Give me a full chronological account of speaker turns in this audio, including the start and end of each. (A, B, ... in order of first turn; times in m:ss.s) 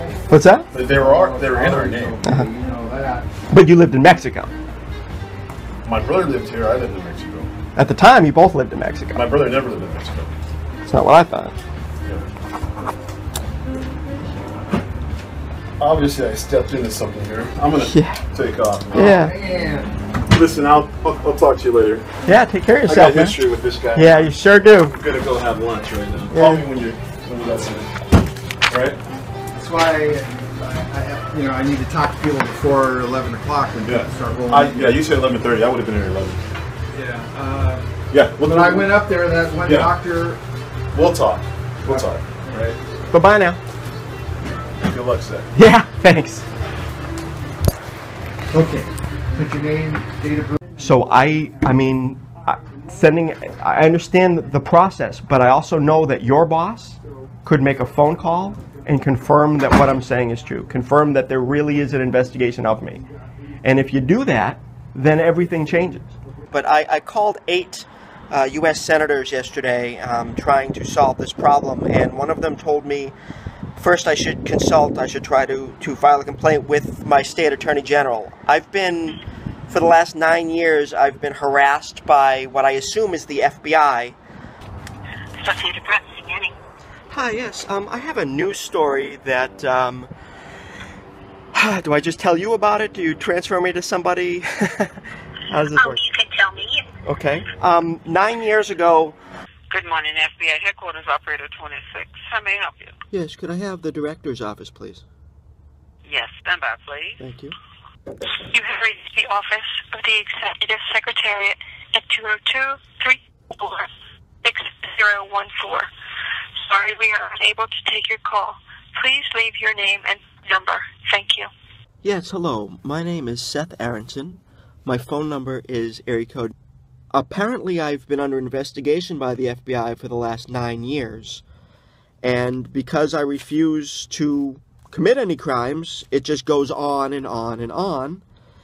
0:00.3-0:00.7 A
0:00.7-0:02.2 B
0:00.9-0:03.3 C
0:02.2-0:02.5 A
0:03.5-0:04.5 A
0:05.8-0:07.5 B
0:07.8-0:09.2 A
0:09.1-0:10.3 B
0:10.8-0:11.5 A
0:15.8-0:19.2 B
0:17.8-0:18.2 A
0:18.9-0:19.3 A
0:19.1-0:19.8 C
0:20.3-0:22.0 B
0:22.2-0:23.4 A
0:22.8-0:27.9 B
0:23.9-0:25.0 A
0:26.3-0:26.6 A
0:28.7-0:29.0 B
0:29.5-0:34.8 C
0:33.8-0:36.4 B
0:37.2-0:37.8 C
0:38.1-0:39.0 B
0:38.4-0:40.4 C
0:39.6-0:40.0 B
0:40.9-0:42.8 B
0:43.1-0:43.6 A
0:44.8-0:45.5 B
0:45.5-0:46.4 A
0:48.5-0:50.6 C
0:50.8-1:03.0 A
1:03.6-1:13.1 A
1:13.8-1:19.2 A
1:19.7-1:24.2 A
1:25.4-1:26.6 D
1:27.1-1:30.1 A
1:31.5-1:34.9 A
1:35.5-1:36.0 A
1:35.7-1:36.9 D
1:37.0-1:39.2 A
1:39.7-1:42.9 D
1:43.1-1:45.0 A
1:46.0-1:47.2 D
1:47.2-1:47.5 A
1:48.5-1:53.9 D
1:54.4-1:55.9 D
1:56.6-2:01.5 D
2:02.0-2:06.5 A
2:07.1-2:11.4 A
2:12.2-2:18.2 A